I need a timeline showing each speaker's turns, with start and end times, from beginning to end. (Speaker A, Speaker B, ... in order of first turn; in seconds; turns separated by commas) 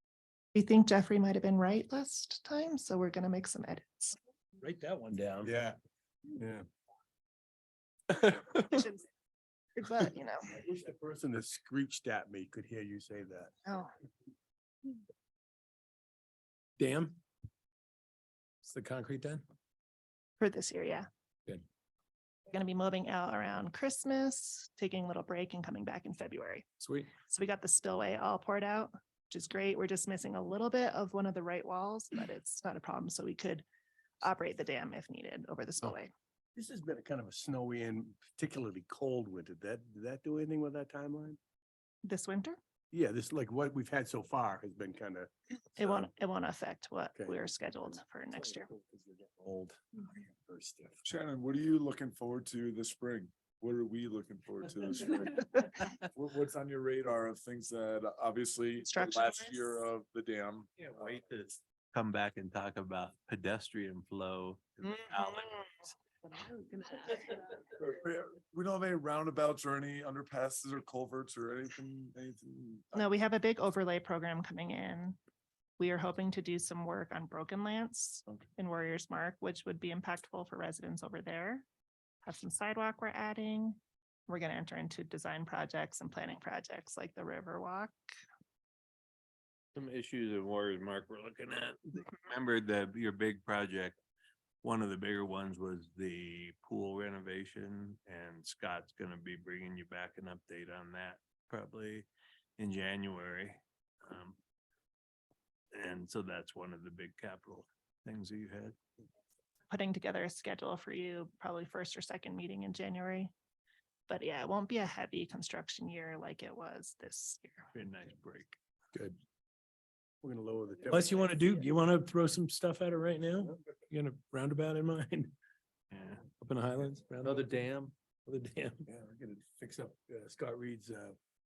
Speaker A: 0.5-4.2, Speaker B: 4.6-5.5, Speaker C: 6.3-6.7, Speaker A: 8.5-9.1, Speaker A: 9.8-10.5, Speaker C: 10.6-13.5, Speaker B: 16.8-17.2, Speaker B: 18.6-19.4, Speaker A: 20.4-21.1, Speaker A: 22.5-26.7, Speaker B: 26.8-27.1, Speaker A: 27.3-33.6, Speaker A: 34.2-36.1, Speaker C: 36.5-41.4, Speaker A: 42.0-42.6, Speaker C: 42.9-46.1, Speaker A: 45.8-48.7, Speaker C: 47.2-47.4, Speaker C: 48.6-51.0, Speaker D: 51.0-55.5, Speaker D: 56.1-60.7, Speaker A: 58.8-59.8, Speaker E: 60.8-65.9, Speaker D: 67.8-73.0, Speaker A: 72.9-75.2, Speaker A: 75.8-81.7, Speaker A: 82.2-88.0, Speaker E: 89.8-94.0, Speaker E: 94.6-102.1, Speaker E: 102.6-104.4, Speaker E: 105.7-108.8, Speaker A: 109.7-113.3, Speaker A: 114.1-117.7, Speaker E: 117.7-118.6, Speaker B: 118.9-119.2, Speaker C: 120.2-121.5, Speaker B: 120.9-125.3, Speaker E: 125.9-126.2, Speaker B: 126.4-127.6, Speaker E: 127.2-127.9, Speaker B: 128.3-128.9, Speaker C: 128.9-131.2